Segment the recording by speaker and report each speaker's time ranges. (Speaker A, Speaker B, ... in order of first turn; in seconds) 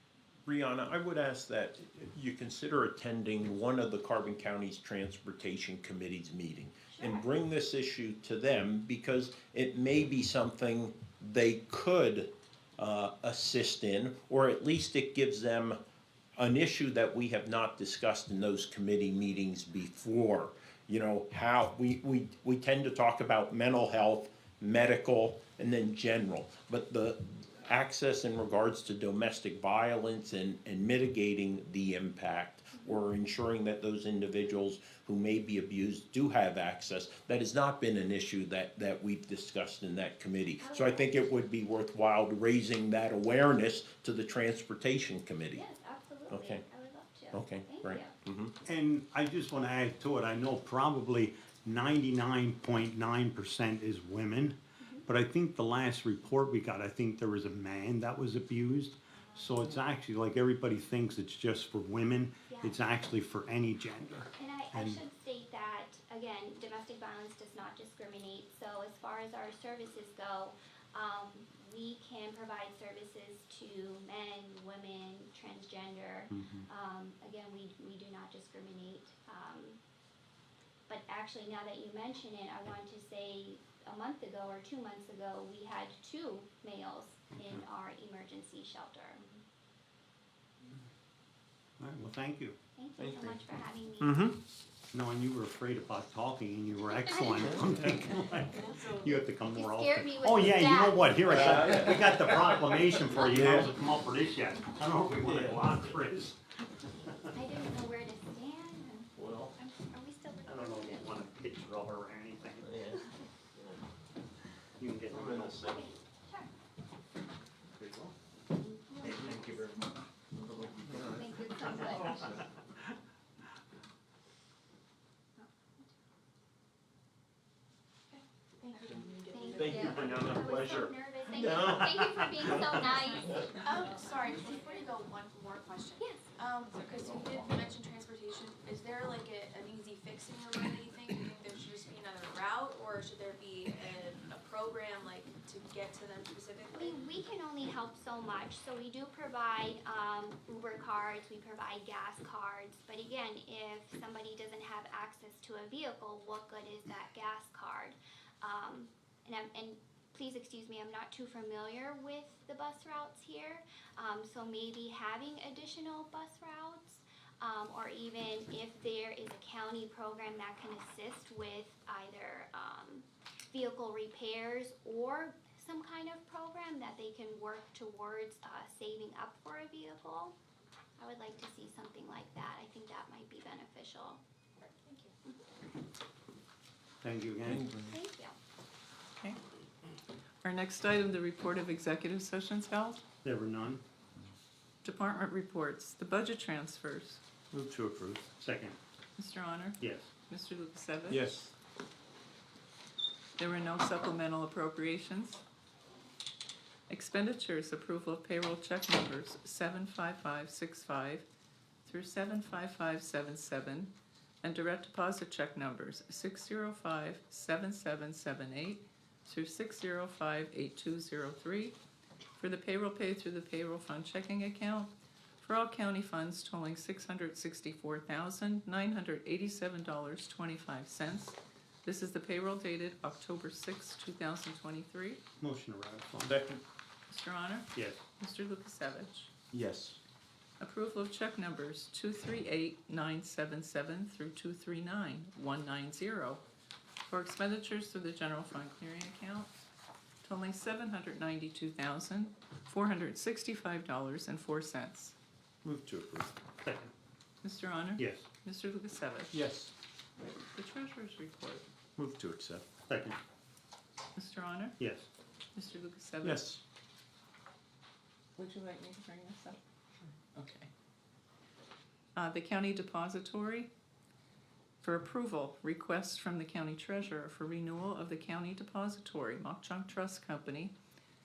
Speaker A: 0.5-15.8, 16.4-45.6, 46.3-46.6, 47.3-48.5, 93.0-93.4, 94.0-94.4, 101.2-102.5, 103.2-103.7, 105.2-105.9, 109.2-109.5, 112.7-113.0, 115.1-115.8, 119.0-119.7, 120.3-121.2, 129.5-132.2, 187.4-187.9, 201.1-201.5, 236.2-236.6, 239.5-240.0, 255.6-256.3, 259.3-259.7, 262.0-262.6, 266.2-266.6
Speaker B: 6.9-7.2, 40.6-41.1, 45.5-48.1, 54.8-55.0, 62.5-62.8, 64.4-79.8, 80.9-89.2, 92.8-94.2, 97.1-97.5, 99.5-101.8, 107.3-111.3, 115.6-116.5, 118.6-119.2, 121.1-122.4, 129.3-134.0, 134.6-134.9, 136.0-136.2, 146.7-180.3, 181.0-184.2, 187.8-188.3
Speaker C: 48.6-65.0, 91.8-92.6, 94.9-106.4, 110.5-112.8, 114.8-115.6, 117.7-118.1, 119.1-119.4, 121.8-122.4, 187.0-187.7, 193.2-193.8, 197.5-198.8, 199.8-200.1, 235.4-236.4, 237.7-238.0, 256.6-256.9, 258.0-258.2, 262.9-263.2, 264.8-265.1
Speaker D: 98.5-99.2, 128.1-130.2, 133.3-147.0, 184.7-185.1
Speaker E: 190.4-193.0, 194.8-197.2, 199.2-201.3, 203.4-205.4, 206.9-211.2, 211.8-221.8, 222.4-235.2, 237.1-239.3, 240.6-246.4, 247.1-249.5, 250.2-255.1, 257.4-259.3, 260.5-261.7, 264.1-264.8, 265.5-266.5, 268.4-269.6, 270.3-270.7, 272.1-273.7, 274.8-280.7